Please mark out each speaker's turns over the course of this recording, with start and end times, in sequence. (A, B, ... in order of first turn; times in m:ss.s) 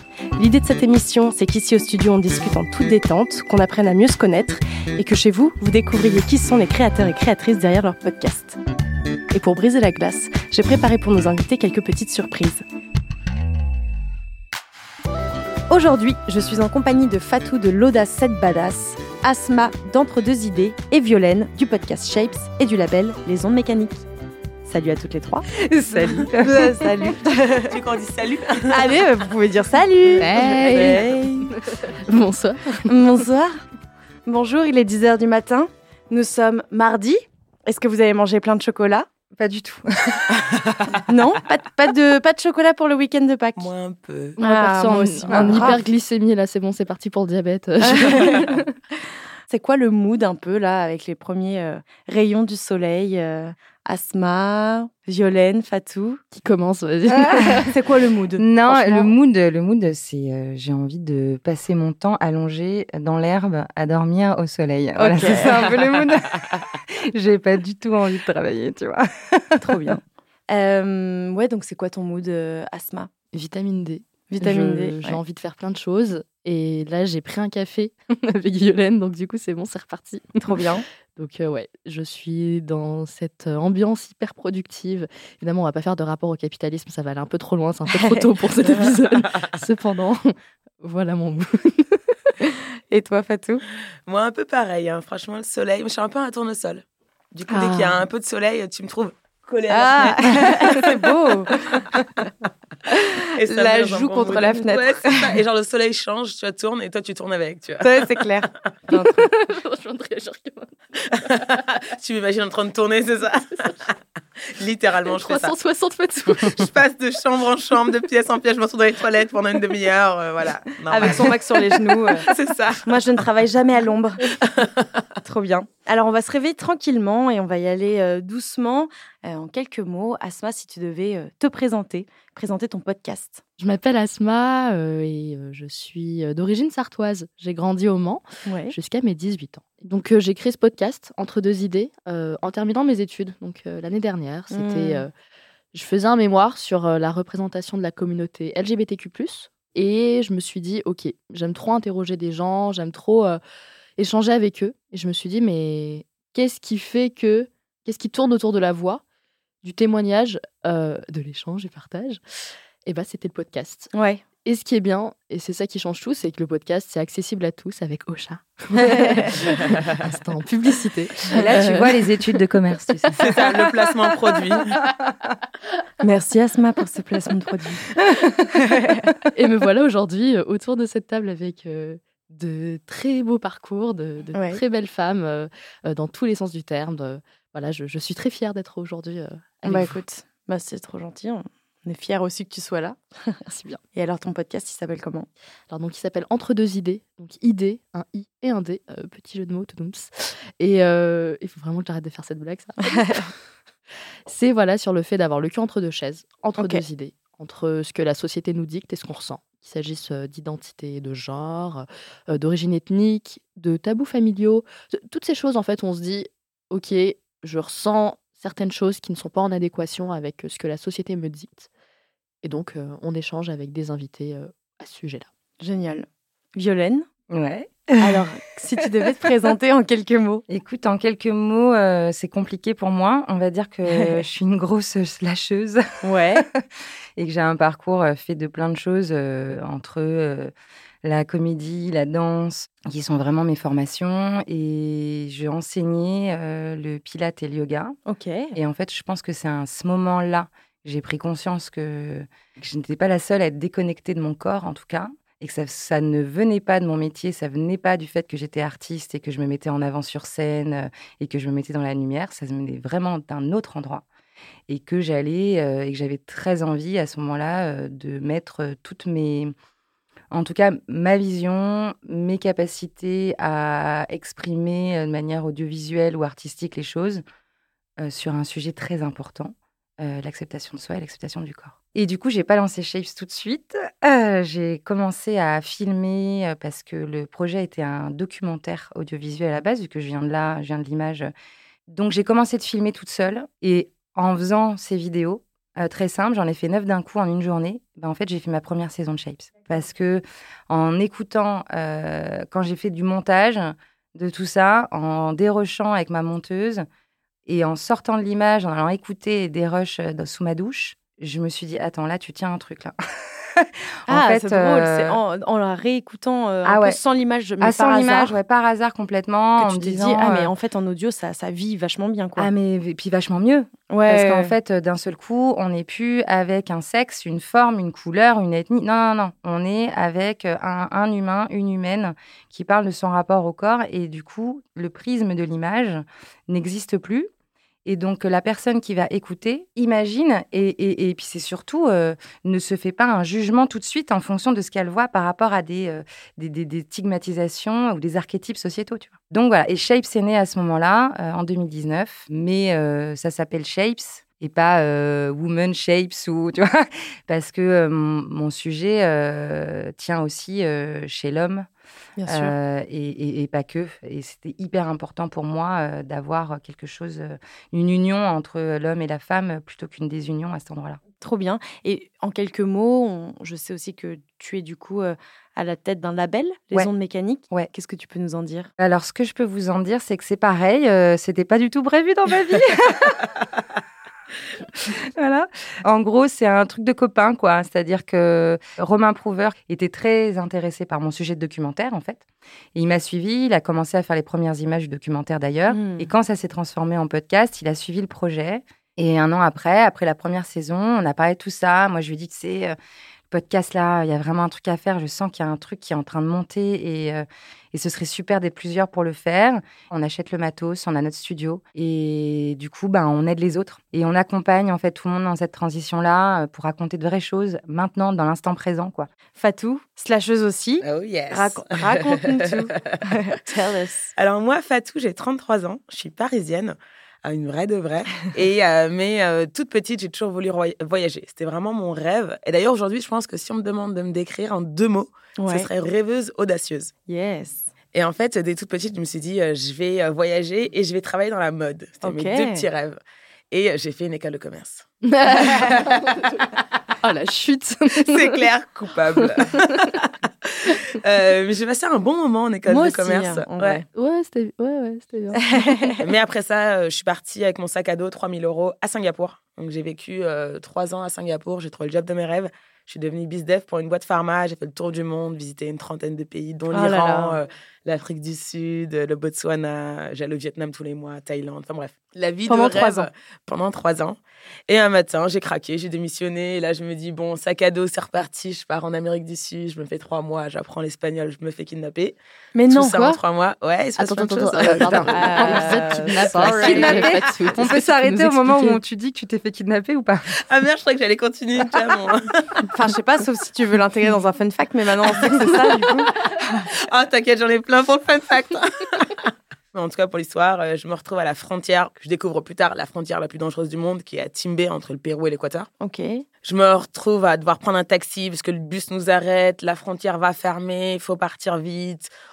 0:00.4-0:08.6 A
0:09.3-0:12.6 A
0:15.7-0:24.0 A
0:24.6-0:25.5 A
0:25.6-0:27.1 B
0:26.3-0:27.8 A
0:27.5-0:29.0 C
0:28.7-0:31.6 A
0:30.2-0:32.9 D
0:30.3-0:31.1 C
0:32.8-0:33.6 A
0:34.2-0:39.1 A
0:39.4-0:40.9 B
0:41.1-0:43.7 A
0:43.6-0:44.4 C
0:44.4-0:45.8 A
0:44.4-0:48.7 D
0:45.3-0:45.7 B
0:48.0-0:48.3 A
0:49.5-0:56.2 A
0:56.3-0:57.8 D
0:57.1-0:57.7 B
0:57.7-0:59.1 A
0:58.4-1:10.0 B
1:05.0-1:05.7 A
1:09.6-1:13.1 A
1:13.3-1:20.4 D
1:14.3-1:15.2 A
1:20.4-1:20.8 A
1:21.2-1:32.5 D
1:27.9-1:28.3 A
1:28.6-1:29.6 C
1:32.9-1:33.6 A
1:34.1-1:36.8 C
1:37.3-1:40.9 C
1:37.5-1:37.9 D
1:39.7-1:41.5 A
1:41.5-1:41.8 C
1:42.9-1:45.4 A
1:43.4-1:48.1 C
1:47.8-1:49.2 A
1:48.9-1:51.5 D
1:51.1-1:54.0 C
1:54.5-1:55.6 C
1:55.1-1:56.7 D
1:56.3-2:03.0 C
2:00.9-2:02.3 A
2:02.8-2:04.3 A
2:04.4-2:04.9 C
2:05.2-2:13.4 A
2:13.6-2:25.1 D
2:18.4-2:18.8 A
2:24.5-2:25.1 A
2:25.7-2:33.4 D
2:34.0-2:39.0 D
2:39.6-2:42.2 D
2:42.8-2:43.9 D
2:43.9-2:44.2 A
2:44.4-2:52.1 D
2:51.3-2:53.4 B
2:53.2-2:53.5 D
2:53.2-2:54.8 C
2:56.0-2:57.9 A
2:58.6-2:59.1 A
2:59.3-3:10.0 D
3:04.3-3:04.6 A
3:09.6-3:15.3 A
3:15.7-3:23.3 D
3:22.9-3:23.3 A
3:24.3-3:41.7 D
3:26.6-3:26.8 A
3:42.4-3:45.3 D
3:45.6-3:47.1 A
3:47.3-3:48.3 B
3:48.0-3:50.4 A
3:50.5-3:55.8 B
3:53.9-3:54.2 A
3:56.0-3:56.5 A
3:56.4-3:56.6 B
3:57.2-4:00.5 B
4:01.0-4:08.0 B
4:08.1-4:08.5 A
4:08.5-4:24.0 B
4:24.7-4:29.5 B
4:30.3-4:37.2 B
4:38.0-4:51.3 B
4:51.9-5:06.9 B
5:07.5-5:15.2 B
5:14.1-5:18.4 A
5:16.6-5:17.0 B
5:17.6-5:20.5 B
5:19.6-5:22.5 A
5:22.4-5:37.3 B
5:23.9-5:24.5 A
5:37.8-6:01.7 B
6:02.2-6:02.5 A
6:02.3-6:11.0 B
6:11.2-6:18.7 A
6:18.8-6:23.4 B
6:24.8-6:32.2 B
6:32.8-6:42.8 B
6:35.7-6:36.1 A
6:43.3-6:59.1 B
6:59.4-7:04.1 A
7:00.8-7:03.1 C
7:04.2-7:16.9 C
7:15.4-7:15.7 A
7:17.1-7:17.7 A
7:17.9-7:23.0 C
7:22.0-7:22.7 A
7:23.5-7:26.1 C
7:25.0-7:26.4 D
7:27.0-7:28.4 D
7:27.9-7:33.8 C
7:29.2-7:29.9 D
7:32.7-7:33.9 A
7:34.0-7:35.9 D
7:35.4-7:36.0 A
7:36.0-8:02.2 C
7:46.7-7:47.4 A
7:52.4-7:53.1 A
8:02.5-8:03.2 A
8:02.7-8:07.1 C
8:04.0-8:08.8 D
8:04.8-8:05.1 B
8:05.1-8:07.1 A
8:06.4-8:10.4 B
8:10.4-8:12.7 C
8:12.7-8:16.1 A
8:16.7-8:25.7 C
8:25.8-8:26.2 A
8:26.4-8:32.1 C